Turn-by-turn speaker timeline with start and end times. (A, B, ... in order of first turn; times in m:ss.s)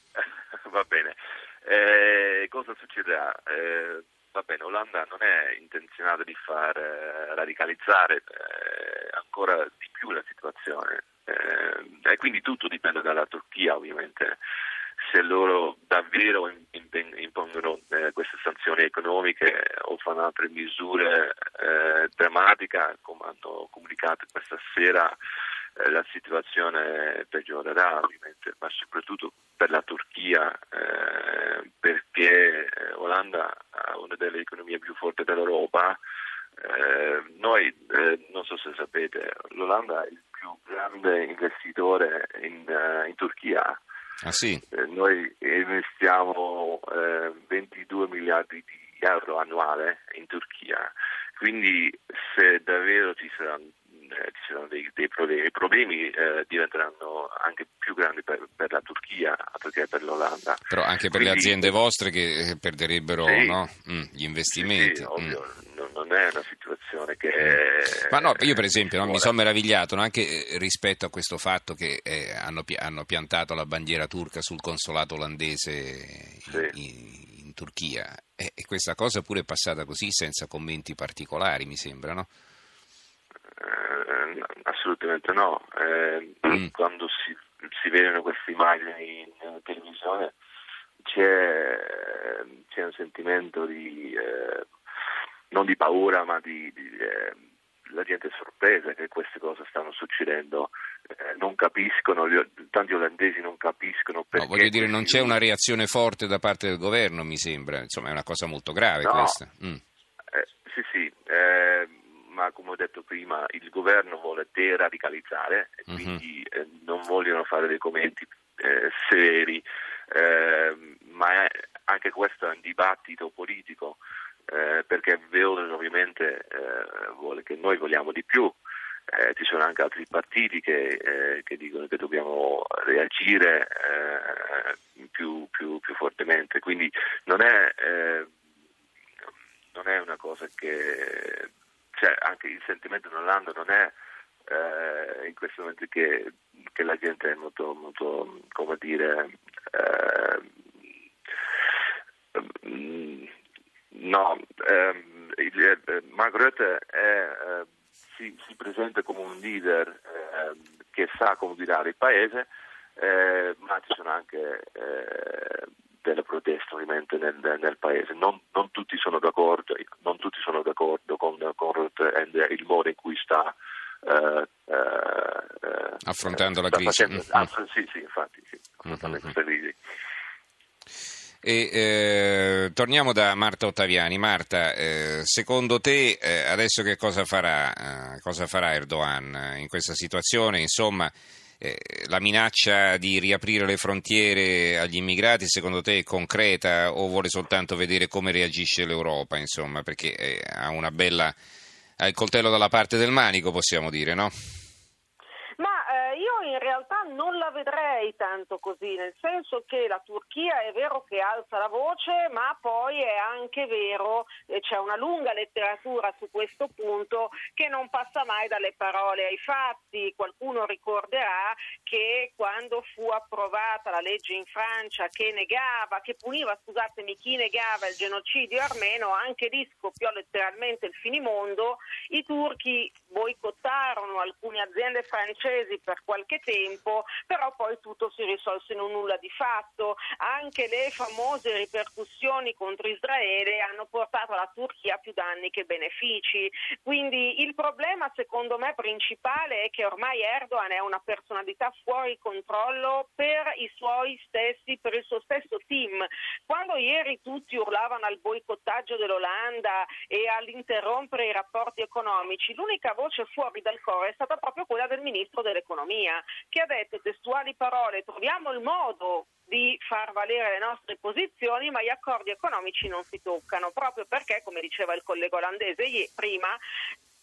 0:00.2-0:14.4 A
0:15.0-0:25.1 A
0:25.8-0:36.0 A
0:36.6-0:43.8 A
0:44.2-0:44.6 B
0:44.7-1:01.7 A
1:00.7-1:05.4 B
1:03.2-1:03.6 A
1:04.5-1:09.3 A
1:07.4-1:22.3 B
1:23.6-1:30.3 A
1:31.0-1:34.7 A
1:35.5-1:45.4 A
1:44.3-1:49.8 B
1:49.0-1:49.4 A
1:50.3-2:08.6 A
1:55.9-1:56.2 B
2:09.1-2:18.3 A
2:19.7-2:23.9 A
2:24.5-2:30.5 A
2:32.3-2:33.3 A
2:33.9-2:59.8 A
2:56.0-2:57.5 B
2:58.9-2:59.2 B
3:01.4-3:21.3 B
3:22.0-3:24.3 B
3:25.6-4:36.6 C